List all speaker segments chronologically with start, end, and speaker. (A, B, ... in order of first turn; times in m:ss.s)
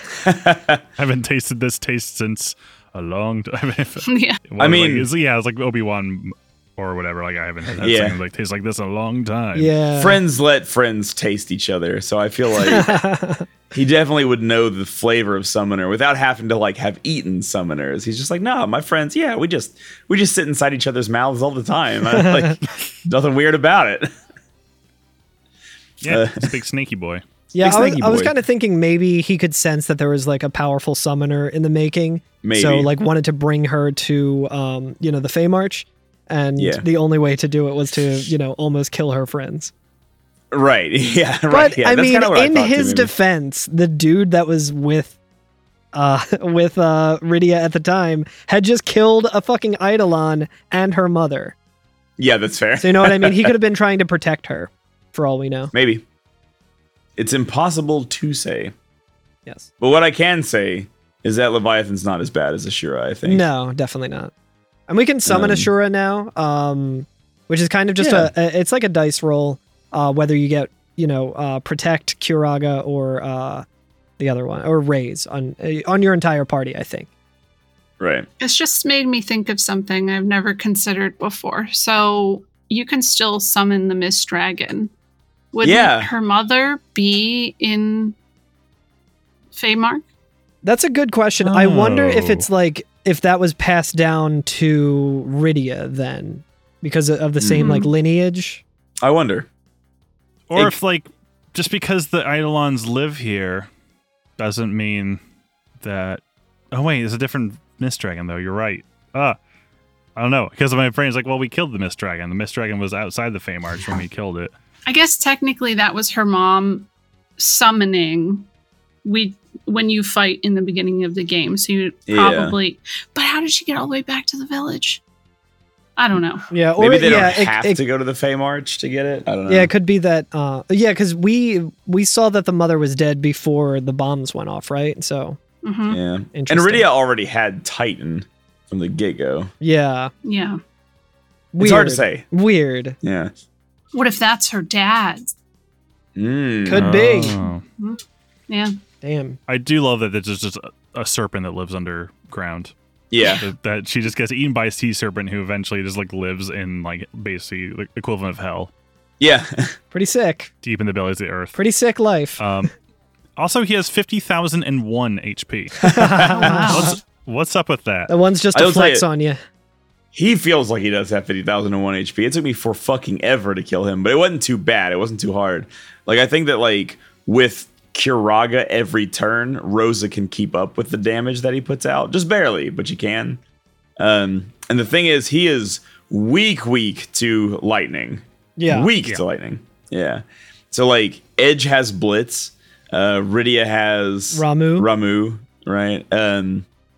0:00.2-0:00.8 A
0:01.0-0:09.7 B
0:04.0-0:04.4 C
0:04.6-0:05.1 A
0:07.8-0:08.2 A
0:09.5-0:10.2 D
0:10.0-0:13.0 A
0:12.6-0:13.4 D
0:13.7-0:24.1 A
0:22.1-0:22.5 D
0:26.0-0:27.2 B
0:26.1-0:26.5 A
0:27.5-0:39.7 D
0:27.6-0:28.3 A
0:32.4-0:32.9 A
0:36.6-0:36.8 A
0:40.5-0:43.1 A
0:41.5-0:45.1 D
0:45.9-0:51.5 D
0:52.2-0:53.5 A
0:52.8-0:55.7 D
0:55.7-0:56.0 A
0:57.2-0:58.7 A
0:59.8-1:03.4 A
1:03.2-1:04.3 D
1:04.9-1:13.6 D
1:05.2-1:05.7 A
1:08.0-1:08.3 A
1:14.2-1:17.1 D
1:18.0-1:18.3 A
1:18.4-1:24.9 C
1:25.5-1:28.1 C
1:25.6-1:26.1 A
1:29.5-1:30.0 C
1:30.6-1:38.6 D
1:31.4-1:32.4 B
1:37.4-1:37.8 A
1:37.6-1:37.9 C
1:39.0-1:39.5 A
1:40.5-1:43.7 B
1:44.4-1:45.2 B
1:45.8-1:49.4 B
1:50.2-1:54.5 B
1:54.8-1:58.4 C
1:59.0-2:05.0 C
2:02.1-2:02.6 A
2:06.0-2:06.4 C
2:06.5-2:07.8 D
2:06.8-2:09.7 A
2:09.5-2:15.4 D
2:15.6-2:16.0 C
2:15.9-2:19.5 A
2:16.3-2:16.9 D
2:19.6-2:20.1 D
2:20.2-2:20.6 C
2:21.5-2:23.0 D
2:21.6-2:22.2 A
2:23.0-2:23.3 A
2:23.9-2:25.3 C
2:26.2-2:27.0 A
2:26.6-2:27.4 D
2:26.7-2:27.6 B
2:27.8-2:28.7 C
2:29.0-2:29.4 D
2:29.5-2:38.7 B
2:33.1-2:33.4 A
2:39.2-2:39.8 A
2:39.9-2:40.5 D
2:40.6-2:41.6 B
2:41.5-2:42.4 D
2:42.4-2:42.7 B
2:43.4-2:48.1 B
2:45.8-2:46.6 A
2:45.8-2:46.9 D
2:46.3-2:47.0 C
2:48.1-2:49.4 D
2:48.5-2:49.0 A
2:50.1-3:03.4 A
3:04.0-3:16.6 A
3:08.6-3:08.9 D
3:14.3-3:14.9 D